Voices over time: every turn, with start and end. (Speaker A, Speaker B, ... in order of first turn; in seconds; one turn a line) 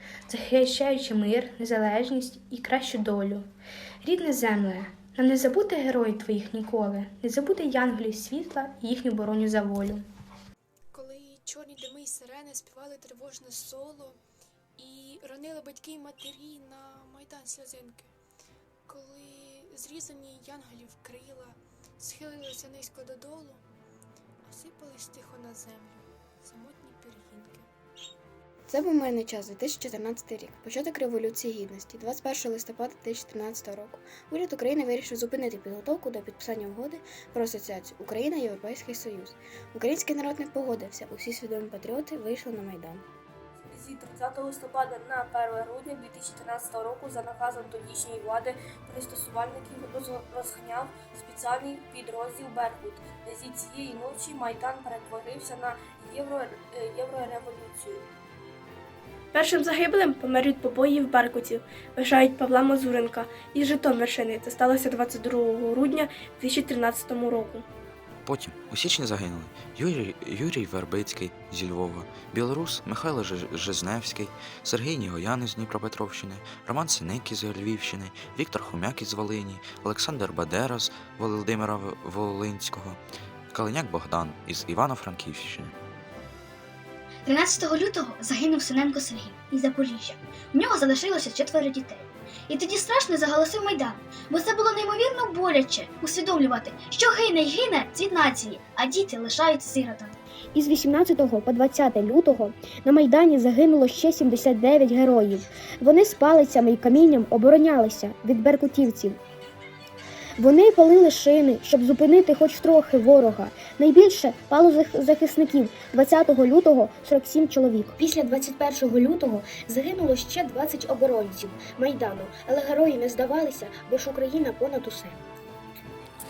Speaker A: 0.3-3.5
Speaker A: 4.0-10.1
Speaker B: 10.9-14.2
Speaker B: 14.8-18.1
Speaker B: 18.9-23.6
Speaker B: 24.5-27.7
Speaker C: 28.7-43.0
Speaker D: 43.6-58.1
Speaker E: 59.3-67.7
Speaker F: 68.2-83.0
Speaker F: 83.5-85.7
Speaker G: 87.3-100.2
Speaker H: 100.5-109.2
Speaker H: 110.4-125.2